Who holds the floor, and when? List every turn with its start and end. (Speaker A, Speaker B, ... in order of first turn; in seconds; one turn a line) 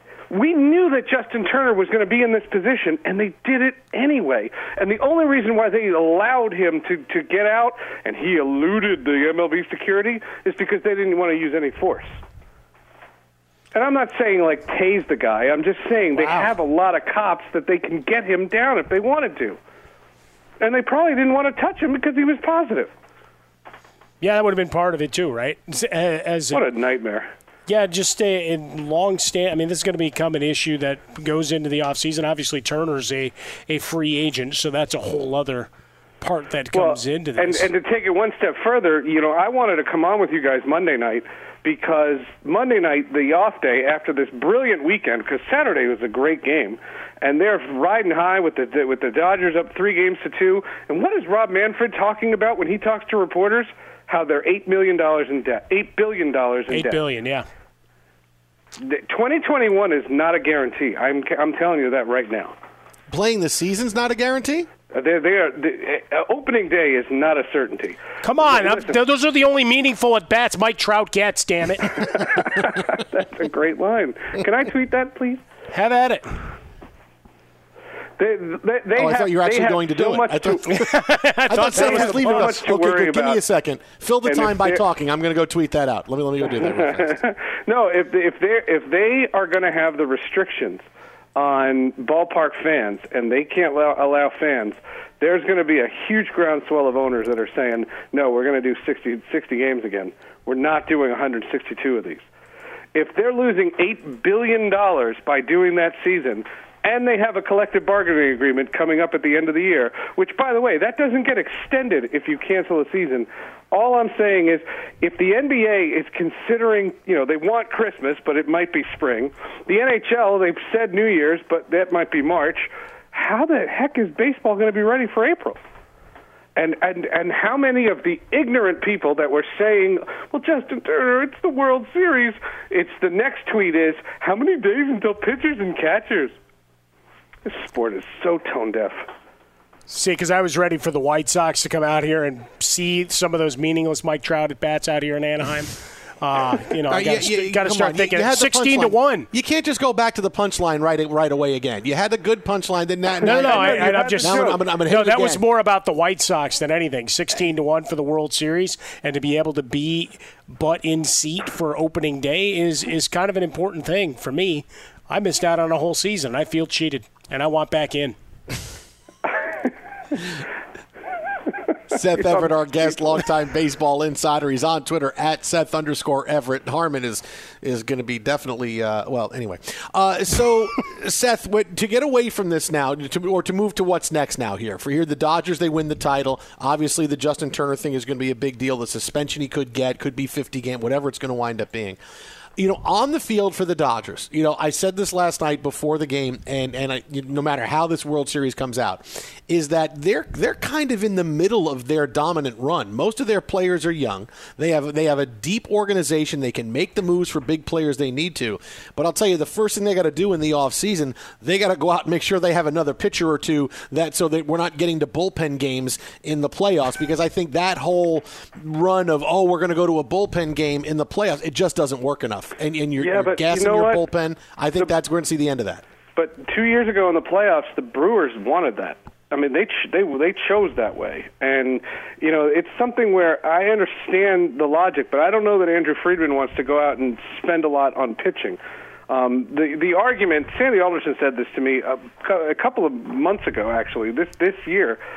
Speaker A: 0.3-12.2
Speaker A: 13.7-19.6
Speaker B: 16.1-16.5
Speaker A: 20.6-22.9
Speaker B: 24.2-26.6
Speaker A: 26.5-27.3
Speaker B: 27.7-35.7
Speaker B: 36.2-37.7
Speaker A: 36.7-57.0
Speaker B: 56.7-57.5
Speaker A: 58.8-62.5
Speaker C: 63.1-64.7
Speaker A: 64.9-68.9
Speaker B: 68.2-72.0
Speaker A: 72.0-75.4
Speaker B: 75.7-76.4
Speaker A: 78.2-80.8
Speaker C: 78.9-80.9
Speaker B: 80.7-82.7
Speaker C: 81.5-87.2
Speaker A: 81.7-83.4
Speaker A: 84.2-84.8
Speaker A: 86.5-90.8
Speaker A: 91.3-102.2
Speaker A: 102.9-125.6
Speaker A: 126.5-136.3
Speaker A: 137.4-139.1
Speaker B: 139.9-149.3
Speaker C: 146.9-155.4
Speaker A: 153.2-154.6
Speaker B: 153.2-168.2
Speaker C: 171.9-192.0
Speaker A: 172.2-173.2
Speaker C: 192.6-225.8
Speaker A: 223.0-224.1
Speaker A: 226.2-245.0